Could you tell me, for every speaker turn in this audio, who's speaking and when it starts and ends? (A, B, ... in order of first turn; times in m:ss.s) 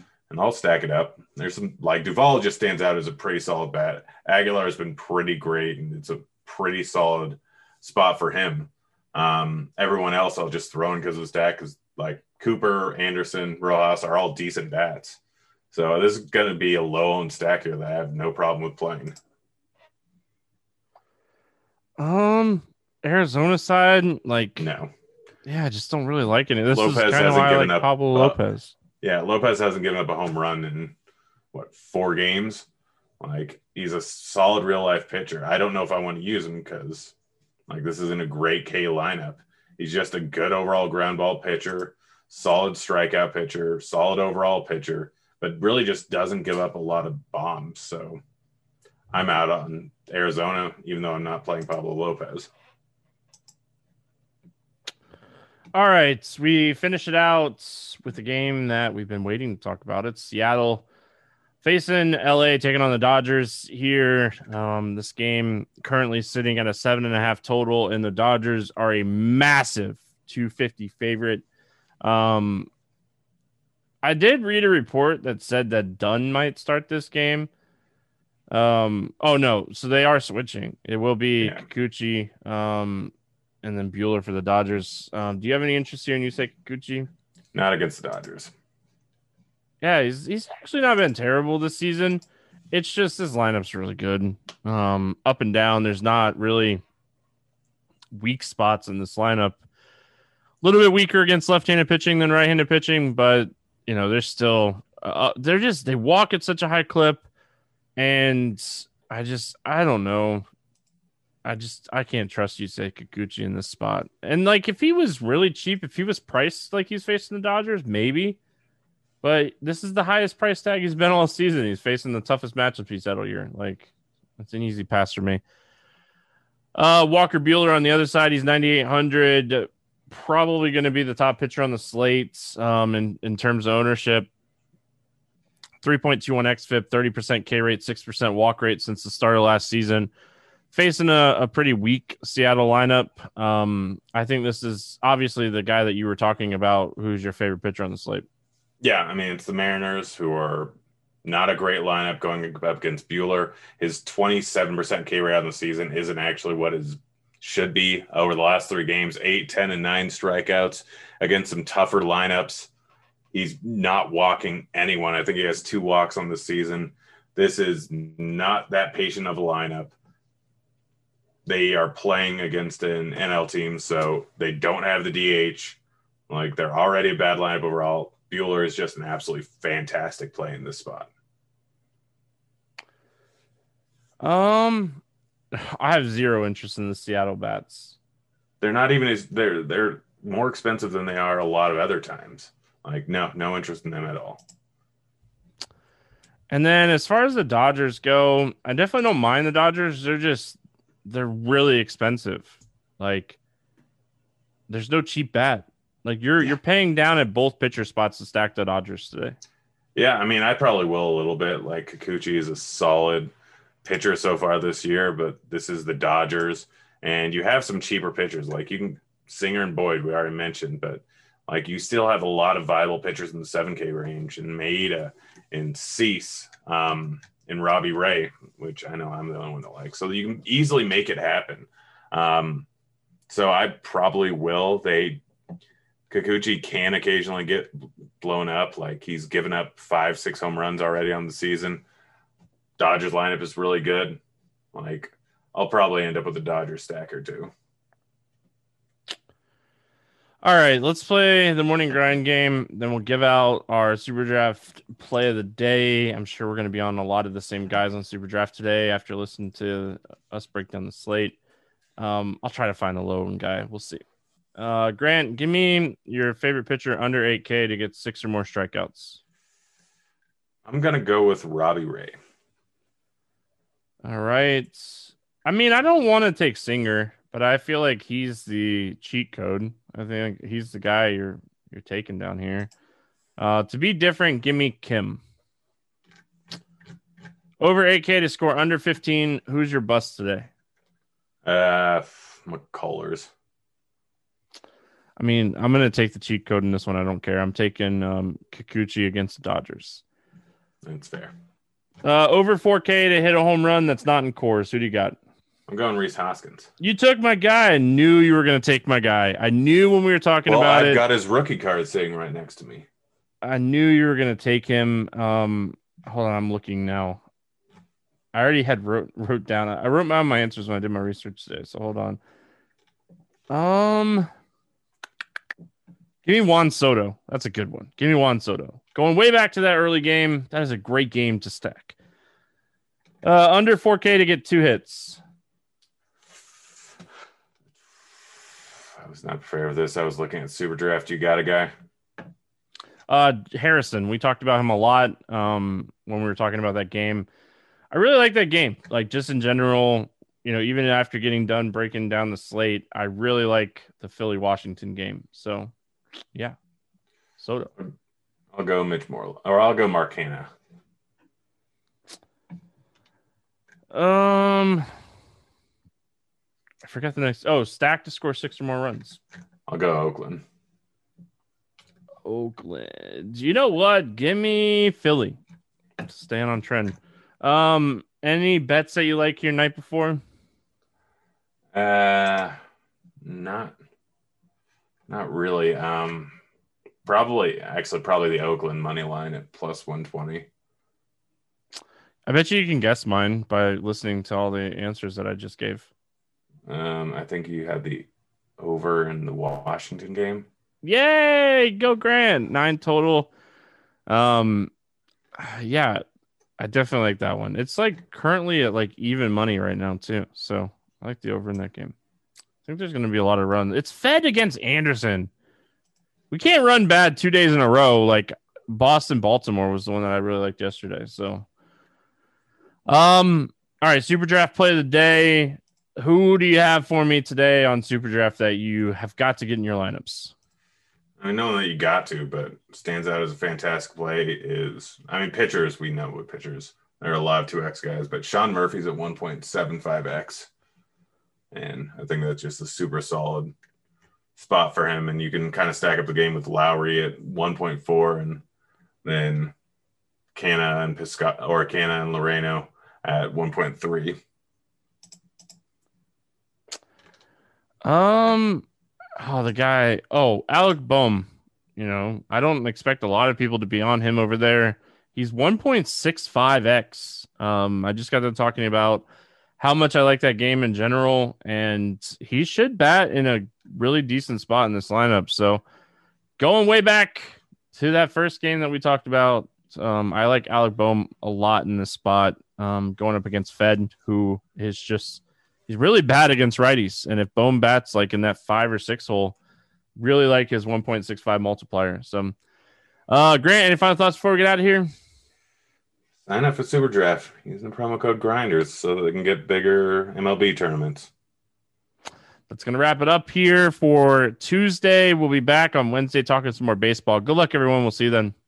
0:00.3-0:15.2 A
0:15.7-0:19.2 A
0:22.0-0:24.7 B
0:24.6-0:24.9 A
0:25.4-0:28.7 B
0:26.7-0:28.4 A
0:29.0-0:31.0 A
0:31.5-0:32.7 A
0:33.2-0:37.1 A
0:37.7-0:48.2 A
0:49.1-0:52.5 A
0:55.7-1:00.9 B
1:01.6-1:11.4 B
1:12.0-1:12.7 B
1:14.0-1:17.5 B
1:18.5-1:27.1 B
1:27.5-1:28.5 A
1:29.8-1:36.8 B
1:38.1-1:39.6 B
1:40.6-1:47.2 B
1:48.0-1:50.4 B
1:51.4-1:58.4 B
1:59.2-2:05.4 B
2:06.8-2:14.3 B
2:15.8-2:20.1 B
2:20.7-2:28.3 B
2:28.8-2:30.7 A
2:31.2-2:42.7 A
2:43.3-2:49.9 A
2:51.4-3:01.1 A
3:04.2-3:08.0 B
3:08.6-3:14.4 A
3:16.5-3:23.4 B
3:24.7-3:29.4 B
3:30.0-3:33.3 A
3:33.8-3:52.7 A
3:53.3-3:55.2 A
3:56.1-4:01.8 A
4:02.8-4:04.2 A
4:04.7-4:07.5 A
4:10.4-4:21.4 B
4:22.0-4:24.0 B
4:24.6-4:29.2 B
4:30.7-4:32.2 A
4:34.0-4:42.7 B
4:43.4-4:45.2 B
4:47.6-4:50.5 B
4:51.4-4:53.3 A
4:55.2-5:00.0 B
5:00.8-5:01.3 A
5:02.0-5:05.2 B
5:05.7-5:06.7 A
5:06.8-5:11.0 B
5:10.5-5:12.9 A
5:13.4-5:17.2 B
5:18.3-5:22.2 B
5:23.5-5:24.3 B
5:26.2-5:32.0 B
5:33.2-5:35.2 B
5:38.9-5:41.7 A
5:43.1-5:47.3 B
5:47.9-5:55.7 B
5:57.4-5:57.7 B
5:58.5-6:00.5 A
6:03.9-6:04.9 B
6:06.8-6:09.2 B
6:09.7-6:10.4 A
6:12.3-6:15.4 B
6:16.0-6:20.2 B
6:21.7-6:22.5 A
6:23.2-6:23.8 A
6:25.1-6:26.4 A
6:27.0-6:30.5 A
6:32.3-6:35.9 B
6:36.7-6:40.5 A
6:40.8-6:43.3 B
6:44.1-6:44.7 B
6:45.4-6:46.0 B
6:46.6-6:52.0 B
6:52.6-6:55.3 B
6:56.3-7:01.5 B
7:02.9-7:10.3 B
7:11.2-7:20.5 A
7:21.5-7:23.5 A
7:24.4-7:28.4 A
7:29.0-7:29.5 A
7:30.3-7:34.2 A
7:37.8-7:38.7 B
7:39.2-7:49.1 B
7:49.6-7:55.6 B
7:56.4-8:09.4 B
8:10.0-8:12.4 B
8:13.1-8:14.9 B
8:16.3-8:21.1 A
8:22.5-8:28.3 B